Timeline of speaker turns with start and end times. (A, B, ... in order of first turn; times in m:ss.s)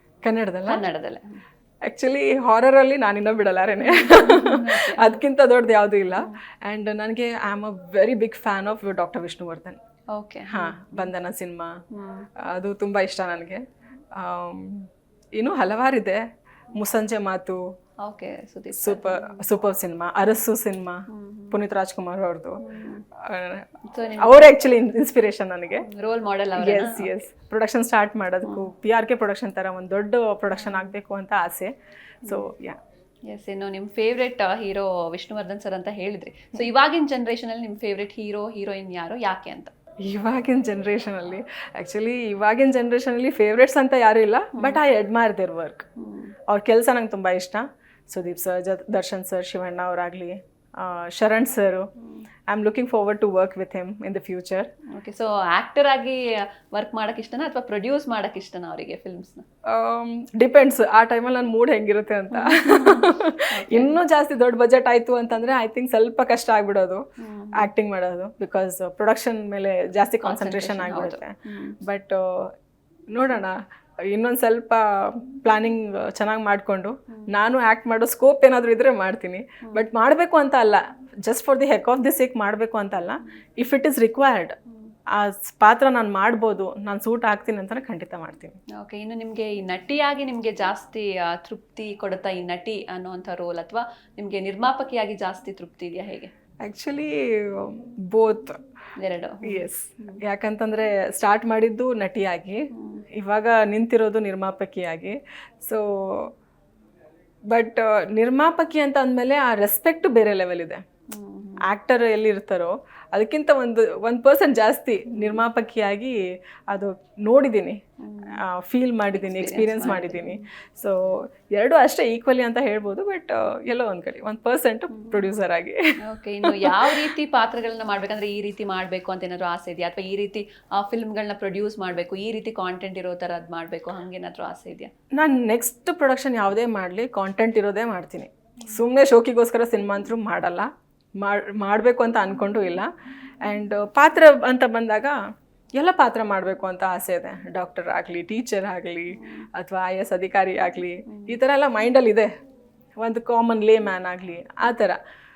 0:00.2-0:00.8 A
0:00.7-0:01.4 B
0:01.9-0:09.8 A
0:03.8-0:05.2 B
0:06.1-0:06.4 B
0:10.1-0:11.1 B
0:10.5-0:11.7 A
0:11.9-0:12.3 B
0:12.4-0:13.6 A
0:14.2-0:16.2 A
0:16.8-0:17.6 A
0:18.0-0:19.4 B
0:18.8-0:22.6 A
0:21.1-0:21.6 B
0:22.6-0:23.0 B
0:23.2-0:23.7 A
0:23.9-0:24.5 B
0:24.2-0:25.9 A
0:25.9-0:27.2 B
0:26.6-0:31.7 A
0:30.6-0:30.9 B
0:32.2-0:32.8 A
0:33.3-0:39.7 B
0:40.1-0:45.9 A
0:46.0-0:46.3 B
0:46.5-0:51.9 A
0:52.5-0:54.7 A
0:54.9-0:59.4 B
0:59.7-1:07.0 A
1:02.3-1:04.0 B
1:07.2-1:07.7 B
1:07.6-1:12.5 A
1:10.2-1:11.8 B
1:13.1-1:13.6 A
1:14.1-1:24.6 A
1:25.2-1:28.6 A
1:28.8-1:36.3 B
1:36.6-1:38.6 A
1:39.0-1:40.2 B
1:39.4-1:46.3 A
1:42.7-1:43.0 B
1:47.5-1:50.8 A
1:51.1-1:51.6 B
1:51.7-1:56.2 A
1:55.1-1:55.4 B
1:56.7-1:57.8 A
1:58.0-1:58.4 B
1:58.4-2:05.8 A
1:59.1-2:00.4 B
2:04.9-2:05.3 B
2:06.0-2:14.9 B
2:06.5-2:07.1 A
2:15.2-2:20.7 A
2:21.2-2:22.9 A
2:23.4-2:25.2 A
2:25.8-2:32.3 A
2:29.2-2:29.4 B
2:31.1-2:31.4 B
2:33.0-2:35.0 A